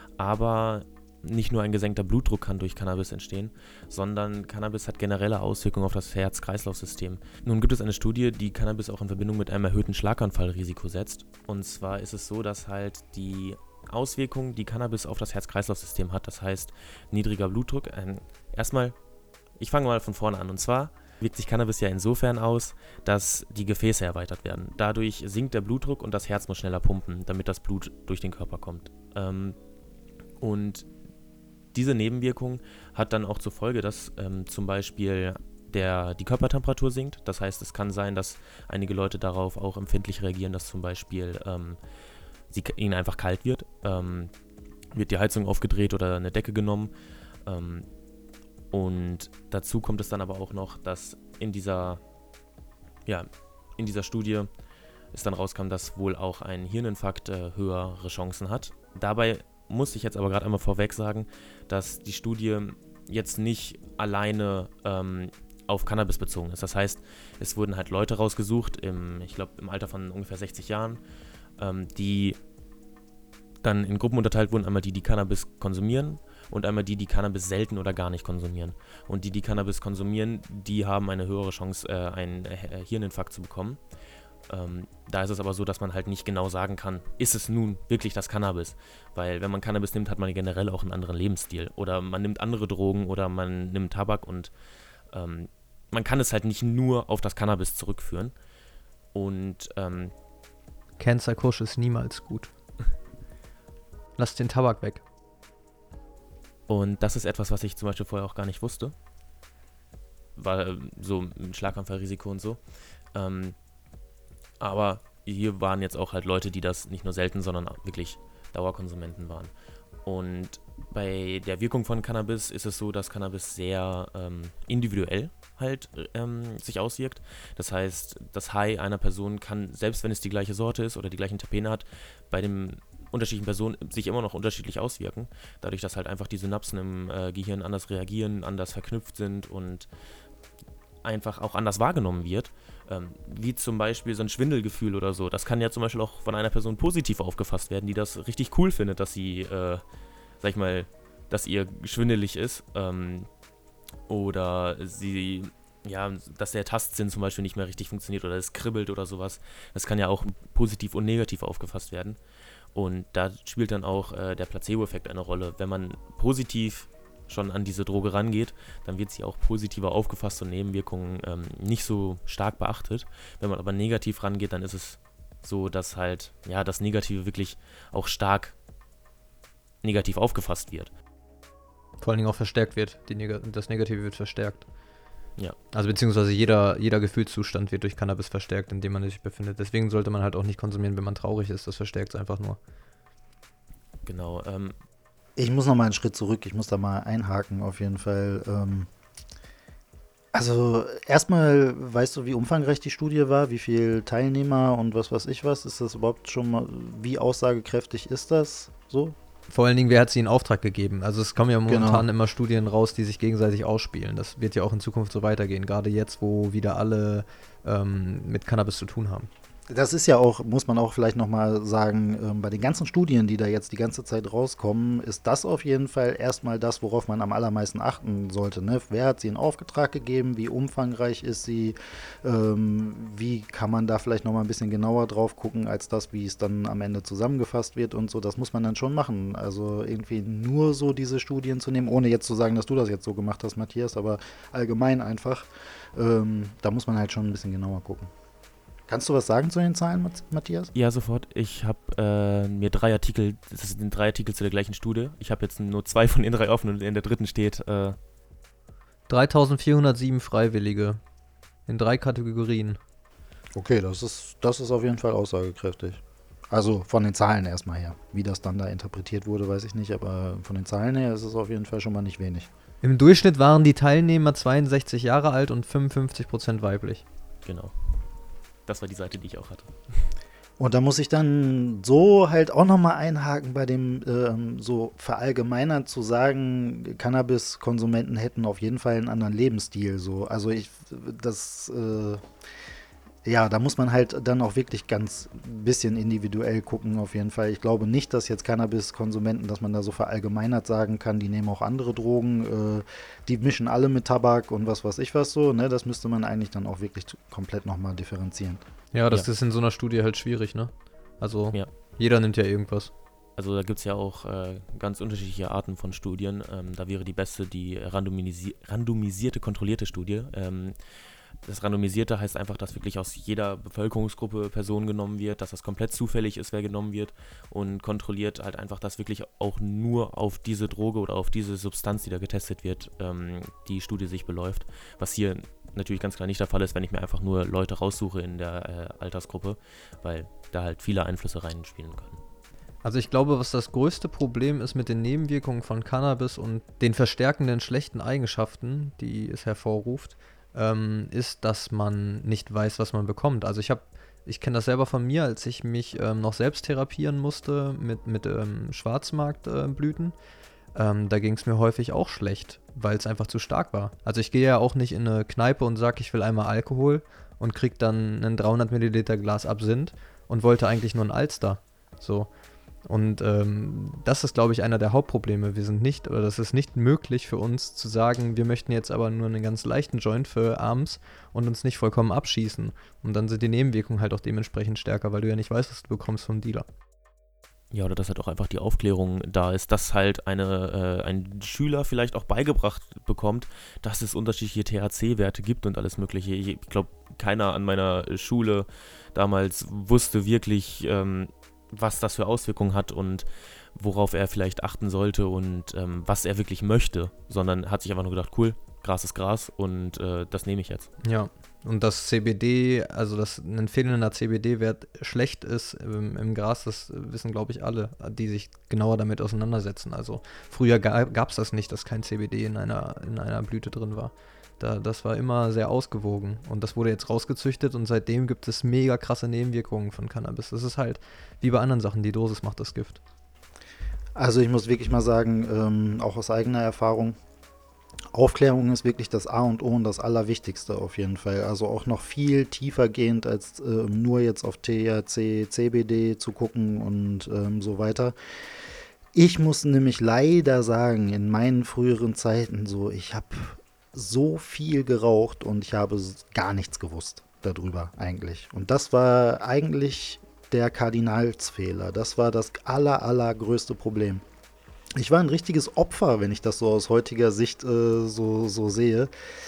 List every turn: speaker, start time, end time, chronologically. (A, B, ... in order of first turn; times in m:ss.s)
0:00.2-0:18.9 A
0:19.6-0:29.6 A
0:30.4-0:30.9 A
0:31.7-0:41.8 A
0:42.5-0:44.3 A
0:44.9-0:46.9 A
0:47.4-0:47.8 A
0:48.7-0:52.0 A
0:53.0-0:54.5 A
0:55.1-1:11.0 A
1:11.6-1:12.4 A
1:13.6-1:23.8 A
1:24.5-1:34.5 A
1:35.1-1:38.3 A
1:39.1-1:40.1 A
1:41.0-1:42.5 B
1:44.2-1:45.0 B
1:46.7-1:48.9 A
1:50.4-1:52.6 A
1:53.1-1:53.5 A
1:54.6-1:59.5 A
2:00.0-2:19.9 A
2:21.0-2:29.8 A
2:30.4-2:33.3 A
2:34.1-2:42.2 A
2:42.7-2:58.5 A
2:59.8-3:00.9 A
3:02.0-3:04.7 B
3:05.7-3:12.6 B
3:14.0-3:14.7 A
3:15.4-3:18.9 C
3:20.3-3:29.2 C
3:29.5-3:39.3 B
3:31.7-3:32.1 C
3:39.7-4:08.1 C
4:08.9-4:10.7 C
4:10.7-4:18.0 A
4:19.1-4:21.0 B
4:21.7-4:22.8 B
4:23.5-4:32.5 C
4:32.8-4:37.0 B
4:37.4-4:37.7 A
4:38.7-4:39.7 A
4:40.6-4:52.2 C
4:53.2-5:08.6 C
5:08.9-5:12.9 B
5:13.4-5:20.7 A
5:21.4-5:42.2 A
5:42.8-6:00.1 B
6:00.7-6:12.3 B
6:12.8-6:26.7 B
6:27.7-6:50.9 A
6:51.0-7:13.0 B
7:14.2-7:17.2 C
7:18.1-7:28.1 C
7:29.1-7:44.2 C
7:45.0-7:49.1 C